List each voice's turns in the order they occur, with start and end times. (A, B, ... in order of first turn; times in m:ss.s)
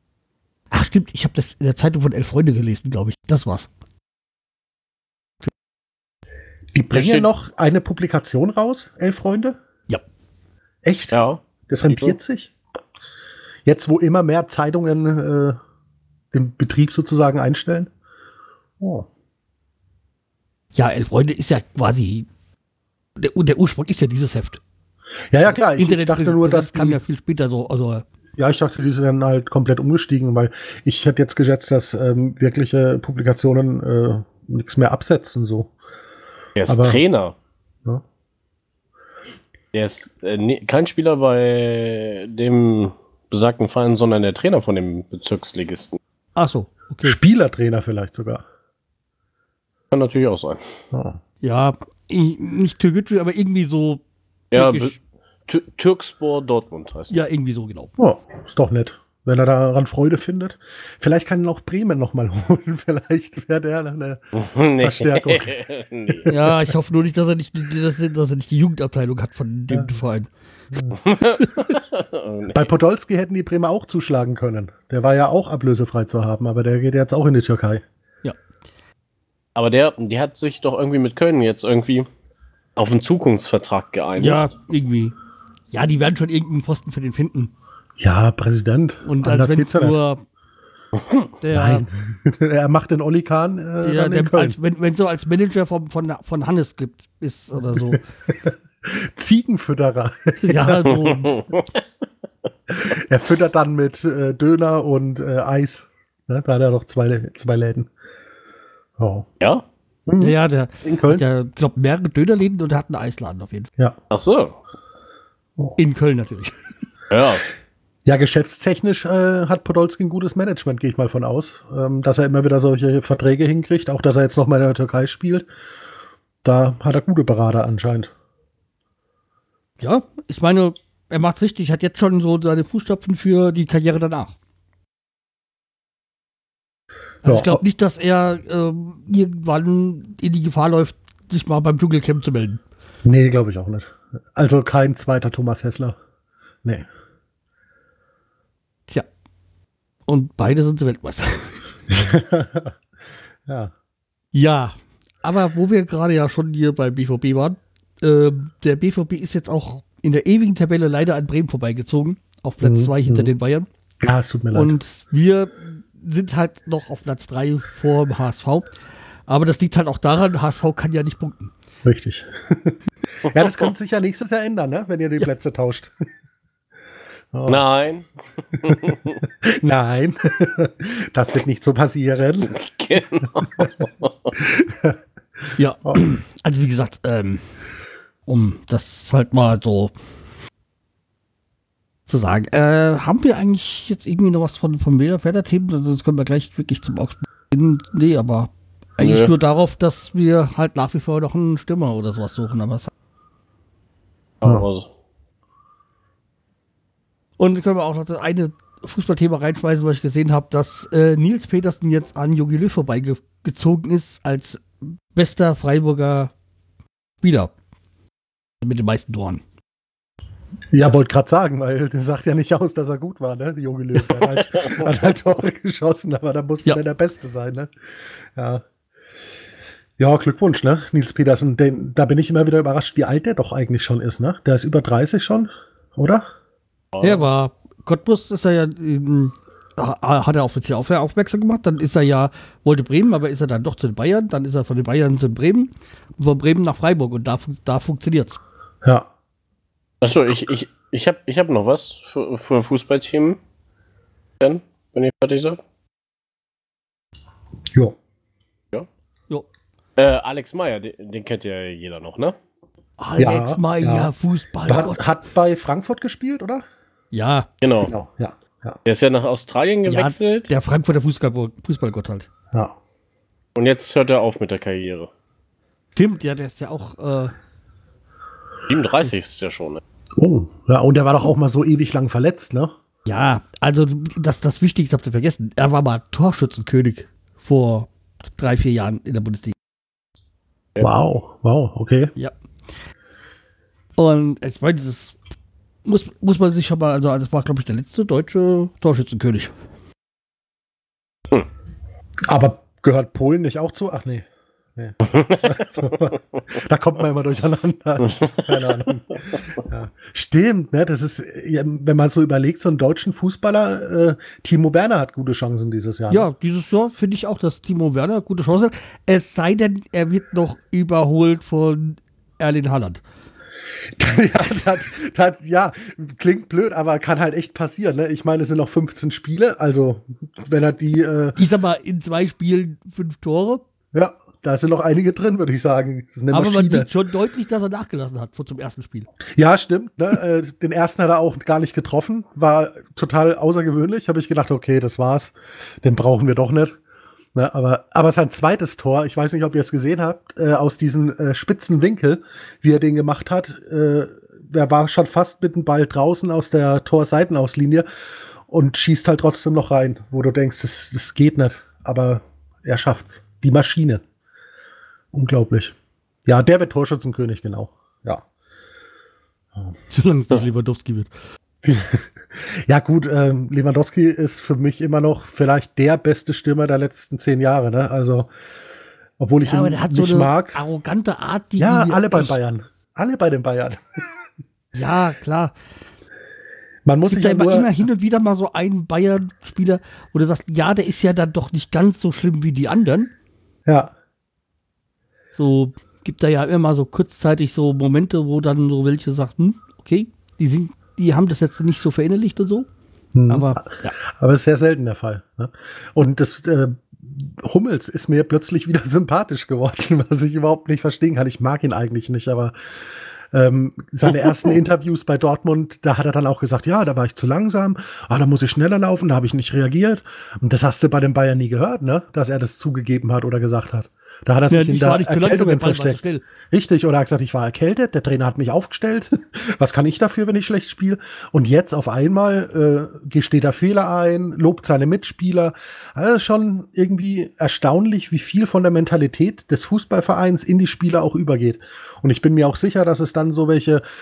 0:00.7-0:03.7 A
0:06.7-0:09.6 B
0:06.9-0:07.3 C
0:10.8-0:11.1 B
0:11.1-0:12.1 C
0:11.7-0:12.5 B
0:13.6-0:15.6 B
0:16.3-0:17.9 B
0:18.8-0:19.1 B
0:20.7-0:22.3 A
0:23.2-0:24.6 A
0:25.3-0:27.0 B
0:25.7-0:28.0 A
0:28.4-0:35.7 B
0:36.6-0:37.3 C
0:36.7-0:37.0 B
0:39.7-0:46.0 C
0:46.4-0:47.2 A
0:47.0-0:48.4 B
0:49.9-0:50.6 C
0:50.9-0:51.2 B
0:51.4-0:54.0 A
0:54.5-0:54.9 C
0:54.5-0:55.0 A
0:55.5-0:57.1 C
0:57.1-0:57.9 A
0:58.0-1:04.2 B
1:04.3-1:06.3 C
1:04.8-1:05.5 B
1:06.1-1:06.7 B
1:06.3-1:10.3 A
1:10.9-1:12.7 C
1:12.5-1:17.8 B
1:19.6-1:22.1 C
1:22.8-1:24.5 C
1:24.2-1:25.1 A
1:25.7-1:27.5 A
1:28.0-1:30.0 B
1:29.0-1:30.2 A
1:31.0-1:31.2 C
1:31.4-1:31.8 A
1:31.5-1:34.6 B
1:33.8-1:38.0 A
1:37.7-1:41.0 B
1:40.4-1:41.4 A
1:40.9-1:41.7 C
1:42.7-1:47.9 B
1:49.0-1:49.2 B
1:50.1-1:51.2 B
1:50.2-1:53.7 A
1:54.1-1:54.6 C
1:55.8-1:56.5 A
1:57.1-1:57.4 C
1:58.0-2:05.4 B
2:06.4-2:08.1 B
2:09.8-2:14.3 A
2:17.2-2:22.6 A
2:17.2-2:17.6 B
2:23.0-2:26.0 B
2:30.1-2:31.7 A
2:31.9-2:32.8 B
2:33.4-2:33.7 B
2:34.3-2:43.7 A
2:42.6-2:43.3 B
2:44.0-2:44.8 B
2:44.5-2:48.7 A
2:49.3-2:51.5 A
2:51.8-2:55.9 B
2:57.3-2:57.6 B
2:57.5-2:59.2 C
2:58.6-3:02.5 B
3:02.5-3:04.3 C
3:04.4-3:05.0 B
3:05.6-3:07.5 A
3:08.3-3:09.9 A
3:12.1-3:22.9 A
3:19.0-3:19.3 C
3:24.4-3:24.9 C
3:27.4-3:36.3 A
3:37.2-3:37.5 A
3:38.6-3:39.4 A
3:40.7-3:47.7 B
3:48.3-3:48.6 B
3:50.0-3:56.2 B
3:56.9-3:57.2 C
3:57.0-4:08.4 A
4:08.8-4:09.1 B
4:10.0-4:13.4 C
4:14.4-4:15.6 C
4:20.0-4:22.4 C
4:23.0-4:25.0 A
4:23.2-4:24.1 B
4:24.6-4:26.6 B
4:27.1-4:27.5 A
4:27.6-4:27.9 C
4:27.8-4:28.8 B
4:28.8-4:30.5 C
4:29.8-4:32.3 A
4:33.5-4:35.1 C
4:35.9-4:37.3 A
4:38.7-4:39.8 C
4:40.2-4:42.7 B
4:43.0-4:49.5 A
4:50.8-4:52.1 B
4:54.0-4:55.2 A
4:55.8-4:59.5 A
5:02.3-5:16.3 B
5:05.1-5:05.6 C
5:16.1-5:23.0 A
5:23.9-5:31.4 B
5:31.4-5:33.6 A
5:33.9-5:36.9 B
5:36.3-5:39.1 A
5:39.4-5:46.8 B
5:47.3-5:57.8 B
5:58.5-6:04.0 B
6:05.1-6:05.7 B
6:06.2-6:08.2 B
6:09.9-6:11.1 A
6:11.6-6:18.3 B
6:19.2-6:20.6 B
6:19.4-6:22.4 A
6:21.6-6:24.0 B
6:24.7-6:25.5 A
6:26.8-6:27.8 B
6:27.0-6:33.1 A
6:33.6-6:33.9 B
6:35.3-6:42.7 A
6:43.1-6:52.5 B
6:43.3-6:43.9 A
6:53.3-7:23.8 B
7:04.5-7:06.2 A